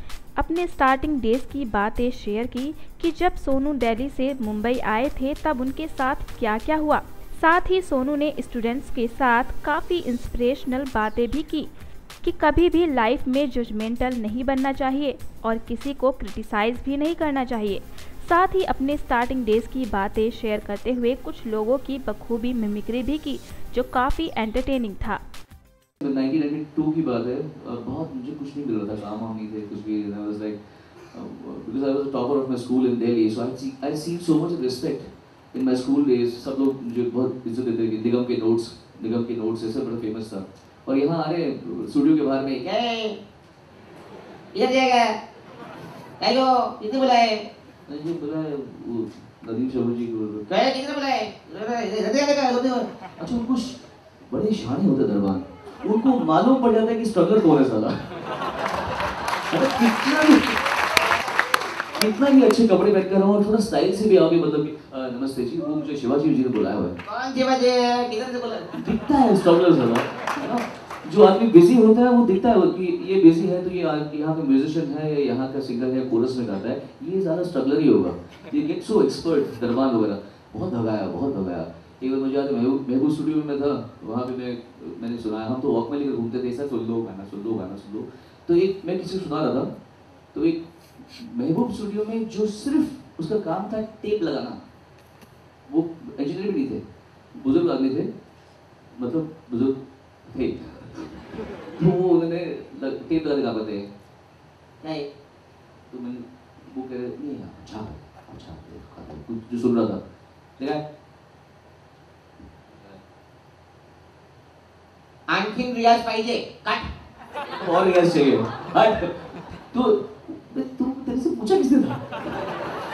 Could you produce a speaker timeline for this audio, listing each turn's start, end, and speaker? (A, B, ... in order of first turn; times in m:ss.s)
0:00.4-0:11.7 A
0:12.2-0:25.2 A
0:26.0-0:30.6 B
0:31.1-0:42.6 B
0:42.6-0:43.2 C
0:44.5-0:45.2 C
0:46.2-0:47.5 C
0:47.9-0:50.5 B
0:50.5-0:52.9 C
0:53.2-0:58.0 B
0:59.5-1:00.6 B
1:02.0-1:07.0 B
1:07.1-1:08.7 C
1:08.7-1:29.7 B
1:30.3-1:34.6 B
1:35.7-1:36.8 B
1:37.4-1:38.1 B
1:38.9-1:41.2 B
1:41.7-1:43.9 B
1:44.8-1:45.1 C
1:45.9-1:50.0 B
1:50.6-1:50.8 B
1:52.7-1:53.0 B
1:55.3-1:56.9 C
1:57.5-2:02.5 B